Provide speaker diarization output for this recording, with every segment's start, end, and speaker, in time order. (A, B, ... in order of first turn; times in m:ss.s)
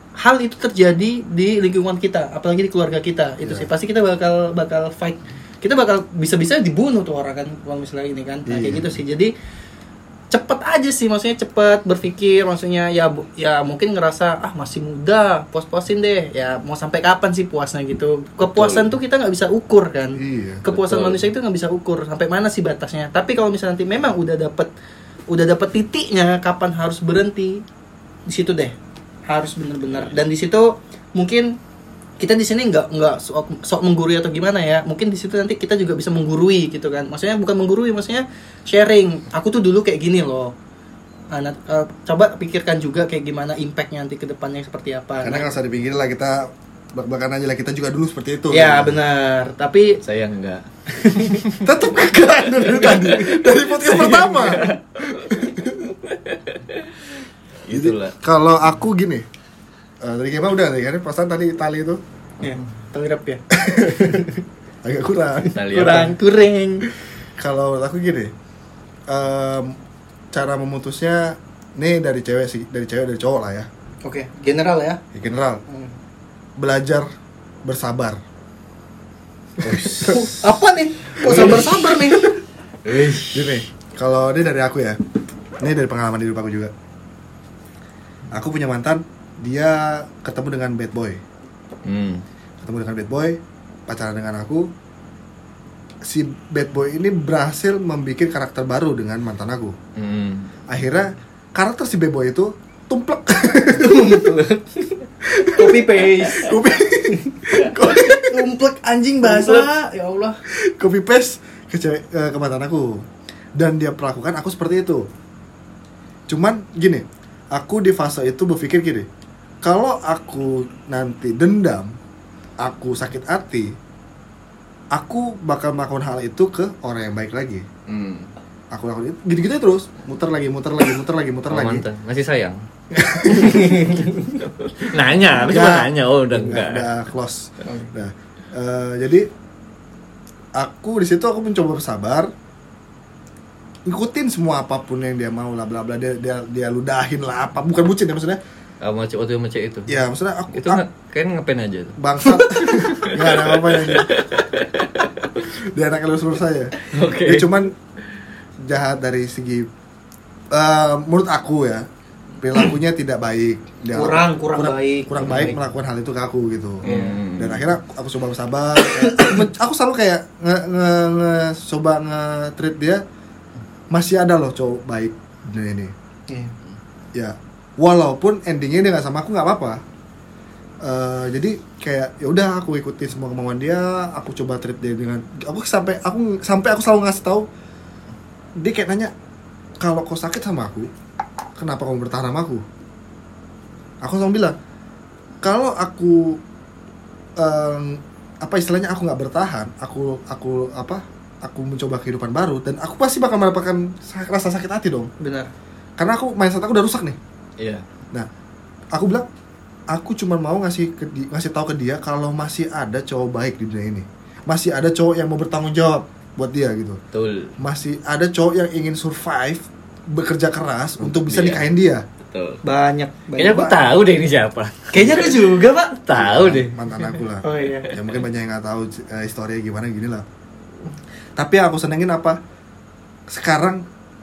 0:00.2-0:09.3 A
0:03.4-0:03.7 B
0:08.5-0:08.9 B
0:10.3-0:24.7 A
0:18.4-0:18.9 C
0:20.2-0:20.7 B
0:20.8-0:21.2 C
0:25.3-0:27.6 A
0:28.3-0:28.8 A
0:29.3-0:31.6 A
0:32.2-0:40.5 A
0:41.3-0:45.5 A
0:45.2-0:49.0 B
0:48.5-0:50.0 A
0:50.0-0:51.6 C
0:50.9-0:51.4 A
0:51.6-0:56.0 B
0:52.7-0:54.8 A
0:56.1-0:56.9 C
0:57.7-0:58.1 C
0:57.7-0:59.2 B
1:00.0-1:02.0 B
1:02.4-1:04.3 A
1:03.5-1:04.3 B
1:04.8-1:06.0 B
1:05.5-1:06.2 C
1:05.7-1:06.8 A
1:07.4-1:08.3 B
1:09.1-1:09.8 B
1:10.3-1:13.7 B
1:14.0-1:15.0 A
1:15.1-1:15.6 B
1:15.7-1:15.9 A
1:16.6-1:17.1 B
1:17.6-1:18.2 B
1:19.6-1:20.3 B
1:19.6-1:20.3 C
1:20.0-1:22.4 A
1:21.2-1:22.2 B
1:22.8-1:23.6 C
1:23.3-1:25.0 B
1:25.6-1:26.7 B
1:28.3-1:31.2 B
1:31.8-1:32.2 C
1:32.6-1:34.7 B
1:36.0-1:39.8 B
1:40.0-1:40.5 C
1:40.7-1:44.3 B
1:43.7-1:50.4 A
1:45.2-1:48.4 B
1:49.2-1:49.7 B
1:50.6-1:53.0 B
1:53.6-1:55.1 B
1:56.3-1:59.1 B
1:59.6-2:02.0 B
2:02.6-2:03.8 B
2:04.9-2:07.7 B
2:07.9-2:08.3 C
2:08.7-2:11.9 B
2:11.5-2:12.6 C
2:12.9-2:14.0 B
2:13.3-2:16.9 C
2:13.4-2:14.1 A
2:15.4-2:19.3 B
2:20.6-2:22.3 B
2:23.9-2:28.4 B
2:28.8-2:29.9 C
2:29.9-2:30.8 B
2:30.5-2:32.0 C
2:32.0-2:34.1 B
2:32.6-2:35.4 C
2:35.7-2:36.7 B
2:36.8-2:37.5 C
2:37.2-2:37.7 B
2:38.7-2:39.7 B
2:40.5-2:41.9 B
2:42.4-2:53.0 B
2:44.0-2:45.6 A
2:46.8-2:47.7 C
2:46.8-2:47.2 A
2:48.9-2:49.4 A
2:53.9-2:55.9 B
2:57.2-2:59.8 B
3:00.8-3:07.5 B
3:08.6-3:09.1 B
3:09.8-3:10.9 B
3:11.6-3:12.6 B
3:14.0-3:14.6 B
3:15.4-3:16.4 B
3:17.4-3:25.1 B
3:25.2-3:25.5 A
3:26.0-3:27.2 B
3:27.6-3:27.8 C
3:28.9-3:29.3 B
3:29.9-3:37.0 B
3:37.1-3:37.5 C
3:37.6-3:42.0 B
3:41.0-3:41.6 C
3:42.3-3:42.6 C
3:42.6-3:43.8 A
3:43.4-3:46.8 C
3:44.9-3:46.0 A
3:46.2-3:50.3 B
3:47.4-3:47.9 A
3:51.4-3:52.4 B
3:53.3-3:53.8 B